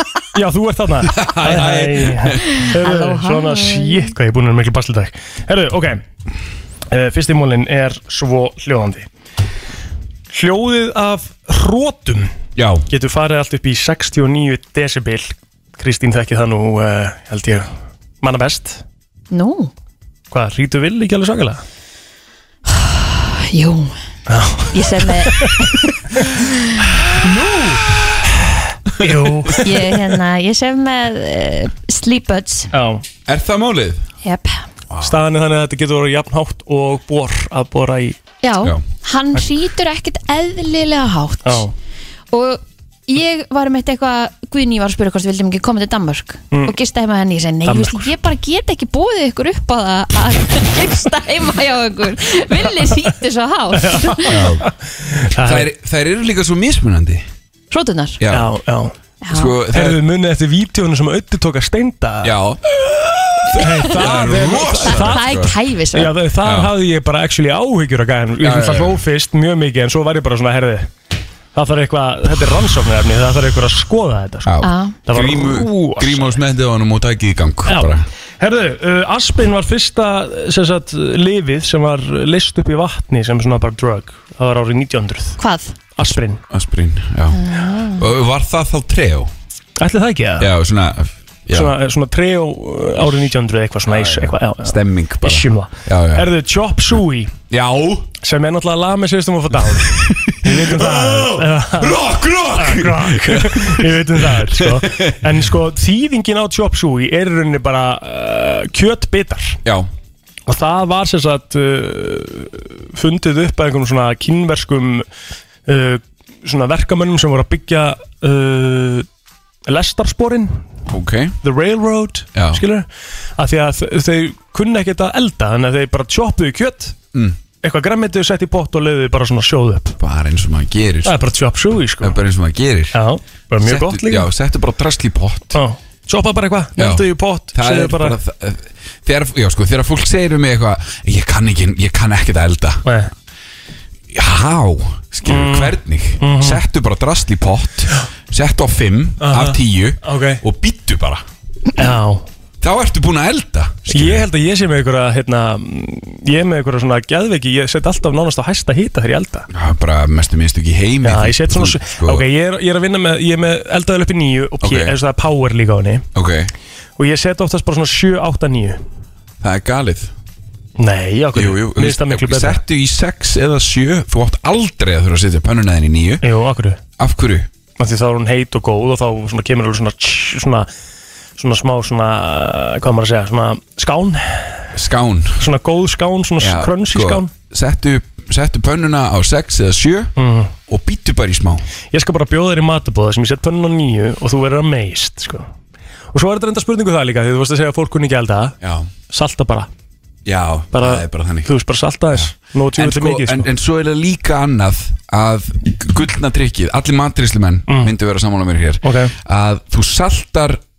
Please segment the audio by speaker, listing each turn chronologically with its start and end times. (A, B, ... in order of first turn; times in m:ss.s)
0:00.3-0:06.0 A
0:01.1-0:02.4 B
0:02.4-0:04.1 C
0:06.9-0:09.1 A
0:10.3-0:12.3 A
0:12.6-0:12.8 B
0:12.9-0:17.7 A
0:18.2-0:18.8 A
0:19.3-0:19.7 C
0:20.3-0:21.6 A
0:22.7-0:23.9 C
0:24.3-0:25.7 A
0:24.7-0:26.9 C
0:27.1-0:27.8 A
0:29.0-0:29.8 A
0:29.0-0:29.5 B
0:29.5-0:32.7 C
0:32.7-0:33.0 A
0:33.2-0:34.0 B
0:34.2-0:34.6 C
0:34.9-0:35.2 B
0:35.0-0:38.2 A
0:38.4-0:41.7 C
0:41.4-0:41.7 A
0:42.3-0:54.5 C
0:47.6-0:48.1 A
0:53.8-0:55.7 A
0:54.2-0:54.6 B
0:55.4-0:57.2 B
0:57.7-0:58.2 C
0:58.2-0:58.5 B
0:58.3-0:59.0 A
0:59.2-0:59.6 C
0:59.3-1:00.0 B
0:59.7-1:02.3 A
1:02.2-1:05.6 B
1:03.5-1:05.2 A
1:03.6-1:06.2 C
1:05.9-1:10.9 A
1:06.4-1:06.7 B
1:08.4-1:09.0 B
1:11.5-1:16.4 A
1:14.4-1:18.0 B
1:14.6-1:15.0 C
1:17.7-1:25.4 A
1:25.4-1:25.8 C
1:26.0-1:26.4 A
1:26.5-1:29.3 B
1:27.3-1:28.1 C
1:29.8-1:30.5 A
1:30.4-1:31.8 B
1:31.5-1:37.3 A
1:33.8-1:36.3 B
1:37.5-1:38.1 B
1:38.2-1:42.0 A
1:39.7-1:45.4 B
1:42.5-1:49.6 A
1:50.5-1:55.1 A
1:55.6-1:59.1 A
1:59.6-2:00.6 A
2:00.9-2:01.4 B
2:01.4-2:07.0 A
2:02.3-2:02.6 B
2:07.1-2:07.4 B
2:07.6-2:10.0 A
2:10.0-2:11.2 B
2:11.0-2:12.2 A
2:12.0-2:13.0 B
2:12.9-2:14.3 A
2:13.6-2:15.6 B
2:15.5-2:18.2 A
2:16.8-2:22.8 B
2:22.8-2:23.1 A
2:24.1-2:31.2 B
2:25.3-2:26.6 A
2:29.2-2:30.4 A
2:31.8-2:32.2 A
2:32.6-2:34.3 B
2:33.9-2:39.5 A
2:39.5-2:42.3 B
2:41.0-2:46.0 A
2:44.6-2:45.0 B
2:46.1-2:46.5 B
2:47.0-2:48.8 A
2:49.4-2:50.1 B
2:50.8-2:52.6 A
2:51.3-2:56.2 B
2:56.2-2:56.8 A
2:57.0-2:57.5 B
2:57.8-3:00.7 A
3:01.4-3:04.7 A
3:04.7-3:05.5 B
3:05.4-3:07.3 A
3:06.4-3:10.1 B
3:10.2-3:10.5 A
3:10.6-3:11.6 B
3:11.9-3:15.5 A
3:16.1-3:18.5 A
3:18.6-3:18.9 B
3:19.1-3:19.7 A
3:20.2-3:21.5 B
3:20.7-3:23.5 A
3:22.1-3:30.6 B
3:28.8-3:29.1 A